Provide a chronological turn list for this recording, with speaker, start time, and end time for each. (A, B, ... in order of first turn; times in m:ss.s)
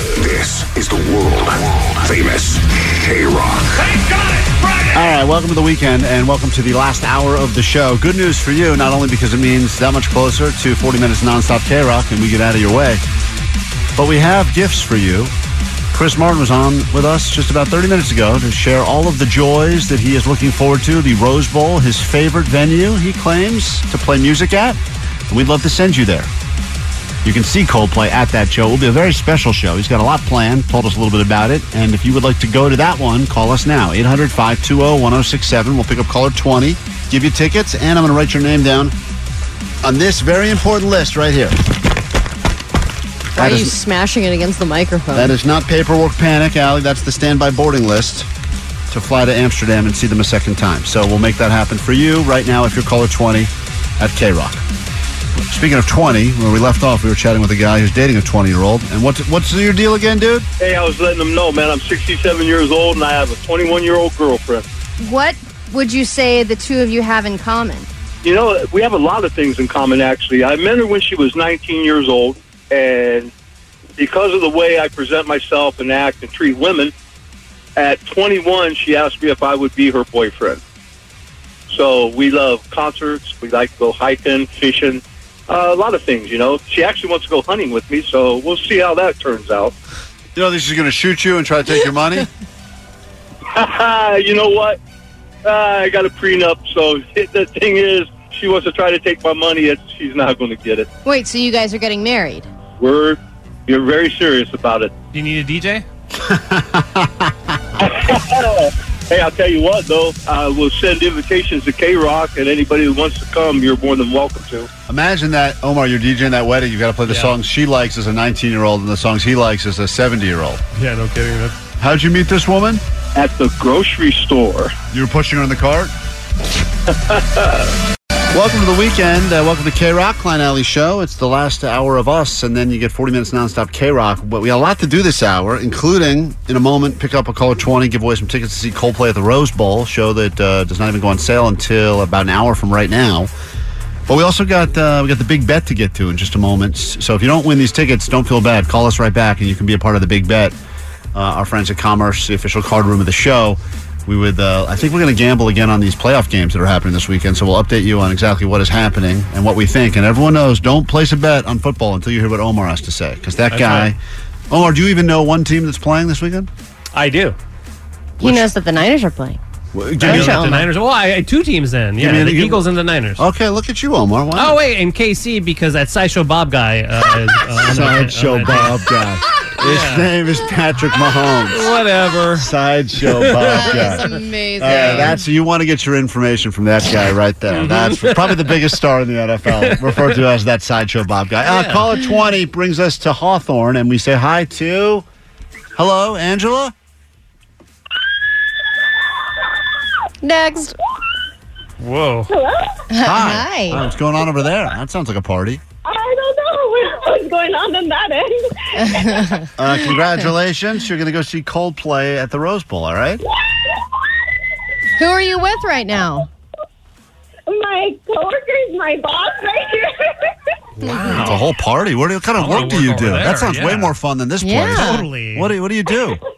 0:00.2-0:03.8 A
0:04.9-0:13.0 B
0:14.0-0:15.3 B
0:15.9-0:26.3 B
0:27.2-0:39.0 B
0:39.8-0:41.6 B
0:43.4-0:43.7 B
0:43.4-0:45.3 C
0:45.1-0:48.3 B
0:48.9-0:54.6 B
0:55.5-1:00.5 B
1:00.6-1:04.7 D
1:05.0-1:07.9 C
1:08.2-1:13.3 D
1:14.0-1:16.9 D
1:17.8-1:20.6 D
1:21.7-1:29.8 D
1:30.4-1:32.3 B
1:33.5-1:34.8 D
1:35.4-1:40.9 D
1:41.0-1:42.5 C
1:42.8-1:44.9 D
1:45.1-1:45.9 E
1:46.2-1:47.3 B
1:47.8-1:54.7 D
1:54.9-2:00.6 B
1:57.0-1:57.4 E
2:00.7-2:01.6 E
2:01.8-2:02.8 B
2:03.2-2:04.8 D
2:04.9-2:05.9 B
2:07.1-2:07.6 D
2:08.3-2:23.3 B
2:24.1-2:30.6 B
2:31.1-2:44.0 B
2:43.5-2:43.9 E
2:44.5-2:46.5 B
2:46.9-2:47.4 E
2:48.2-2:48.5 B
2:48.2-2:49.4 C
2:49.7-2:50.4 B
2:50.0-2:50.7 C
2:50.0-2:53.2 E
2:52.0-2:52.7 B
2:53.2-2:54.6 B
2:54.4-2:58.9 E
2:57.7-3:01.7 B
2:59.6-3:00.1 E
3:01.5-3:02.5 E
3:02.4-3:15.0 B
3:03.0-3:04.0 E
3:03.4-3:05.2 C
3:04.6-3:05.2 E
3:07.5-3:08.8 E
3:09.5-3:10.2 E
3:11.4-3:11.9 E
3:15.8-3:16.7 B
3:20.2-3:20.8 C
3:21.8-3:22.3 E
3:22.3-3:22.8 F
3:22.9-3:23.8 C
3:23.0-3:25.6 B
3:25.8-3:29.5 F
3:28.8-3:29.5 C
3:29.6-3:33.2 B
3:33.4-3:33.9 F
3:35.0-3:36.3 C
3:37.5-3:40.4 F
3:40.8-3:41.4 E
3:40.9-3:41.2 C
3:41.1-3:46.2 B
3:42.4-3:43.9 E
3:44.4-3:45.1 C
3:44.7-3:45.5 E